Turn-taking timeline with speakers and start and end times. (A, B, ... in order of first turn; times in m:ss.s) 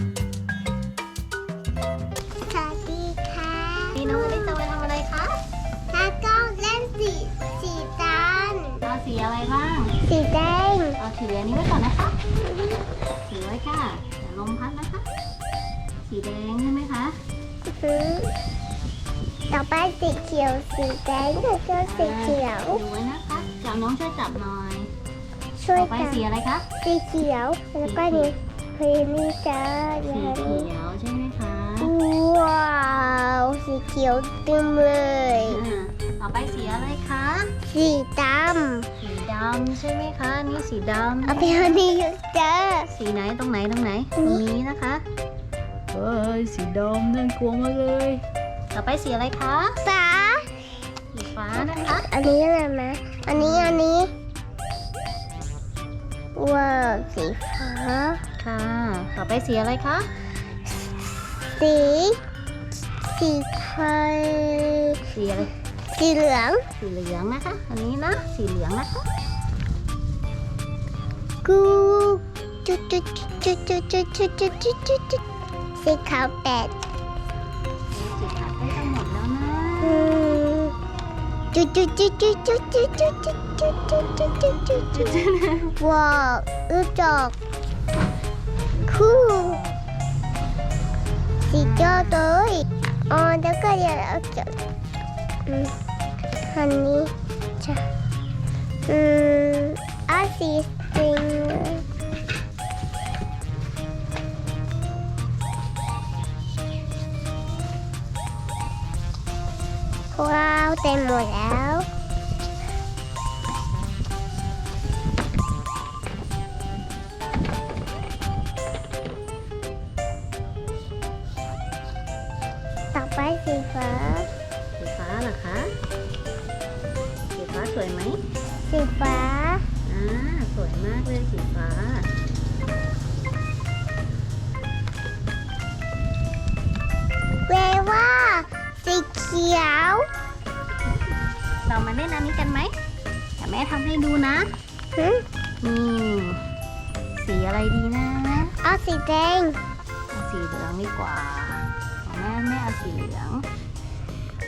0:02.4-0:04.6 A
0:04.0-0:05.4 B
0:05.9-0:08.8 A
0:08.8-0:10.0 B
0:10.0-0:11.0 A
0:11.0-0:12.2 B
0:13.2-0:15.0 B
0:16.0-0:17.2 B
0:17.7-0:18.3 A
0:19.5-0:22.8 A
0:21.8-0:24.9 B
0:25.6-0:26.2 A
0:25.7-0:26.7 B
0:26.8-0:30.7 A
0:27.8-0:28.3 B
0:30.0-0:31.9 B
0:31.8-0:35.6 A
0:35.4-0:37.5 B
0:37.7-0:38.9 A
0:39.0-0:41.7 B
0:41.2-0:42.9 A
0:42.9-0:45.0 B
0:44.2-0:44.4 A
0:45.9-0:49.8 B
0:49.8-0:50.6 A
0:51.1-0:52.1 B
0:51.5-0:54.1 A
0:53.4-0:53.8 B
0:56.4-0:58.2 A
0:58.4-1:00.1 B
1:01.5-1:02.2 A
1:03.0-1:05.0 A
1:05.1-1:05.5 B
1:05.9-1:06.6 A
1:06.8-1:09.1 B
1:11.4-1:15.2 A
1:15.8-1:16.8 A
1:17.9-1:20.3 B
1:19.8-1:20.7 A
1:21.5-1:25.2 A
1:24.7-1:25.8 B
1:25.8-1:27.4 A
1:28.9-1:29.6 A
1:28.9-1:29.8 B
1:31.4-1:34.6 A
1:35.5-1:35.7 A
1:36.5-1:37.8 A
1:38.8-1:41.8 A
1:50.1-1:51.9 A
2:02.9-2:04.3 A
2:04.8-2:05.7 B
2:07.3-2:08.2 B
2:08.7-2:09.6 A
2:09.8-2:12.1 B
2:17.5-2:20.1 A
2:21.6-2:22.7 B
2:23.4-2:24.5 B
2:24.9-2:25.2 A
2:25.6-2:26.4 B
2:27.2-2:28.5 B
2:28.6-2:29.6 A
2:30.1-2:33.4 B